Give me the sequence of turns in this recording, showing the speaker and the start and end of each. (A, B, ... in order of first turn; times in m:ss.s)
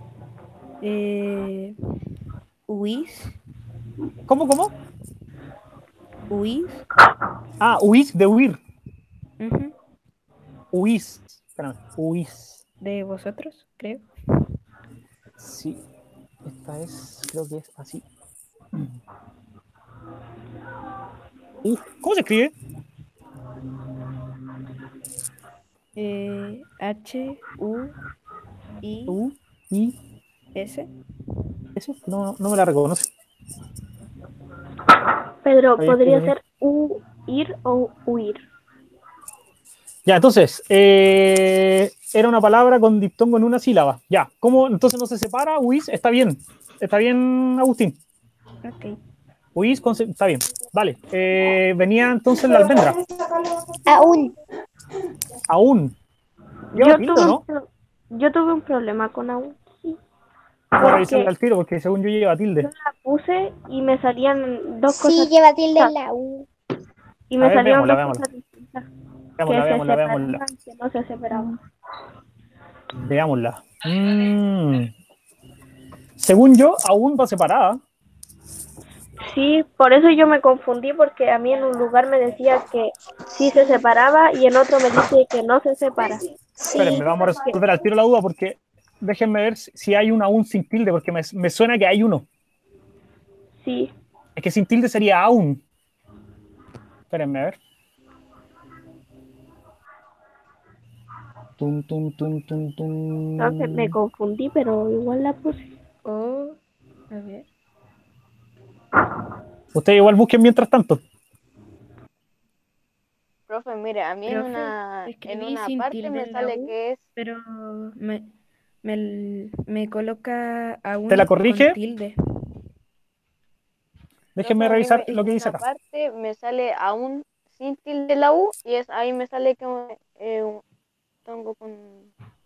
0:00.8-0:01.7 A
0:02.7-0:03.4 A
0:04.3-0:04.7 B
0:06.3-0:06.8 A
0:07.6-0:08.6 B
0:09.4-0:09.7 A
0:10.7-0:12.6 B
0:12.8-0:14.1 A
0:15.4-0:15.8 B
0:16.4-0:18.0 B
0:21.6-0:22.6 B
0:26.0-0:27.9 A
0:28.8-0:29.2 A
0:29.1-0:30.0 B
0:30.6-0:30.9 A
0:31.8-0:33.1 B
0:35.4-0:38.4 C
0:35.8-0:36.4 B
0:40.1-0:48.0 B
0:48.6-0:49.0 A
0:49.6-0:53.0 B
0:53.9-0:54.3 D
0:55.5-0:56.0 B
0:56.7-1:00.0 C
0:56.8-0:57.4 B
1:00.7-1:01.3 C
1:00.8-1:02.7 B
1:02.6-1:05.9 C
1:04.9-1:06.5 D
1:07.3-1:08.9 C
1:07.4-1:08.2 B
1:09.4-1:10.4 B
1:09.5-1:11.5 C
1:13.0-1:14.9 B
1:16.2-1:17.8 B
1:19.3-1:26.2 C
1:26.6-1:27.1 D
1:26.8-1:32.3 B
1:33.6-1:33.9 C
1:34.4-1:35.6 B
1:37.1-1:37.6 B
1:41.6-1:44.0 B
1:43.4-1:45.6 C
1:46.0-1:46.6 A
1:47.1-1:47.5 A
1:49.8-1:51.0 B
1:53.5-1:57.0 E
1:54.3-1:58.3 A
1:58.8-2:02.2 A
2:01.1-2:01.8 B
2:04.4-2:05.6 B
2:04.4-2:10.6 E
2:11.3-2:12.1 E